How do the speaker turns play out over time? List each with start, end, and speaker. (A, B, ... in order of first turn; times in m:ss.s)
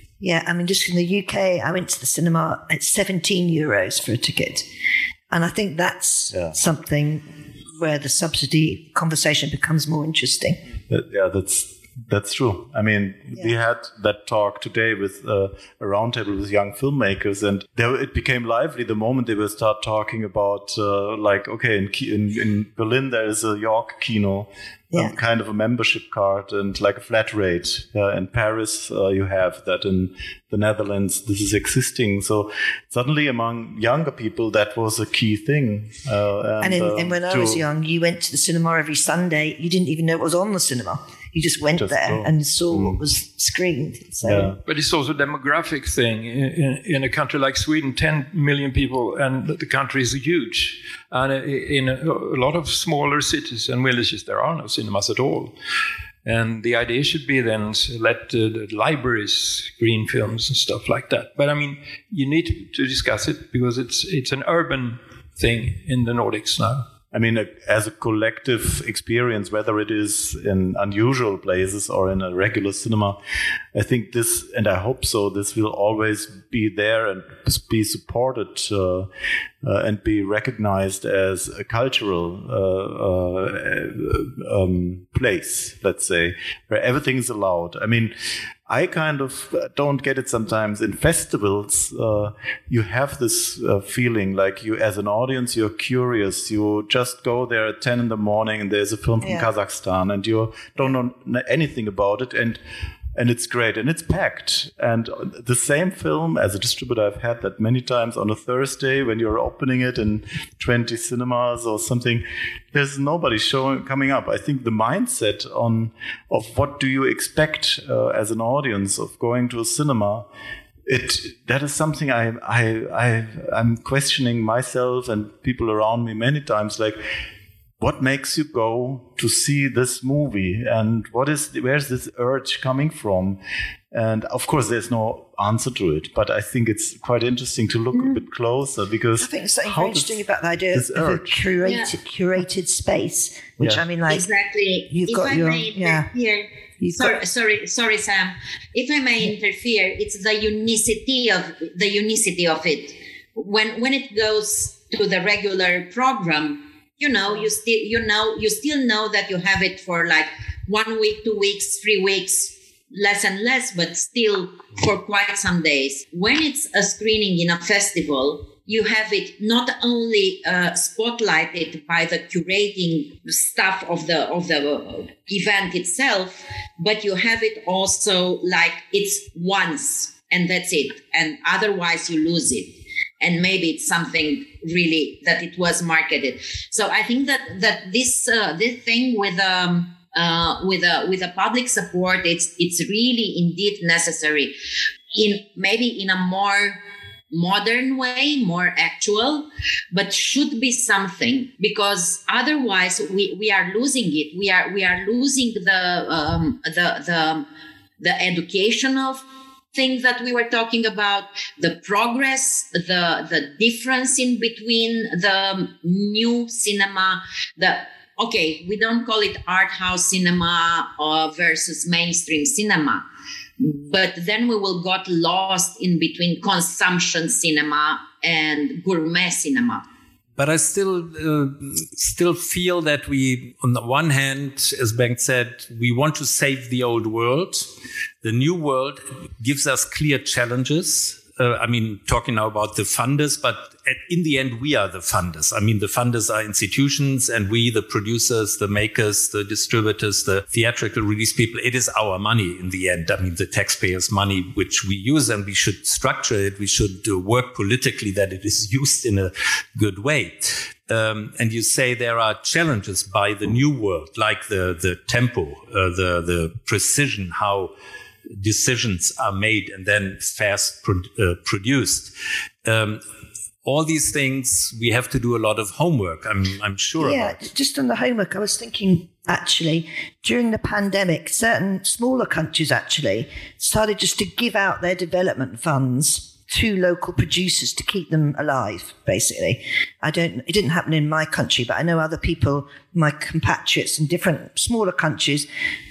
0:00.2-0:04.7 A
0:05.3-0:07.2 A
0:07.8-0:10.6 A
0:10.9-0:37.6 B
0:36.6-0:44.5 A
0:41.8-0:43.0 B
0:44.3-0:44.6 B
0:44.7-0:55.6 C
0:56.2-1:06.8 C
1:07.1-1:13.2 B
1:13.7-1:19.1 B
1:19.6-1:28.1 B
1:28.7-1:42.6 B
1:39.2-1:39.5 A
1:43.2-2:00.3 B
2:00.9-2:07.0 B
2:07.8-2:13.4 B
2:13.9-2:21.5 B
2:19.2-2:24.3 A
2:24.1-3:14.5 D
2:24.9-2:26.1 A
2:26.8-2:27.2 A
3:15.1-3:16.8 D
3:17.3-3:27.5 D
3:28.0-3:29.2 D
3:29.7-3:43.0 D
3:43.6-3:49.8 D
3:50.4-3:57.7 E
3:58.2-4:27.7 E
4:28.4-4:32.1 E
4:32.6-4:33.0 E
4:33.6-4:37.4 E
4:37.0-4:55.5 A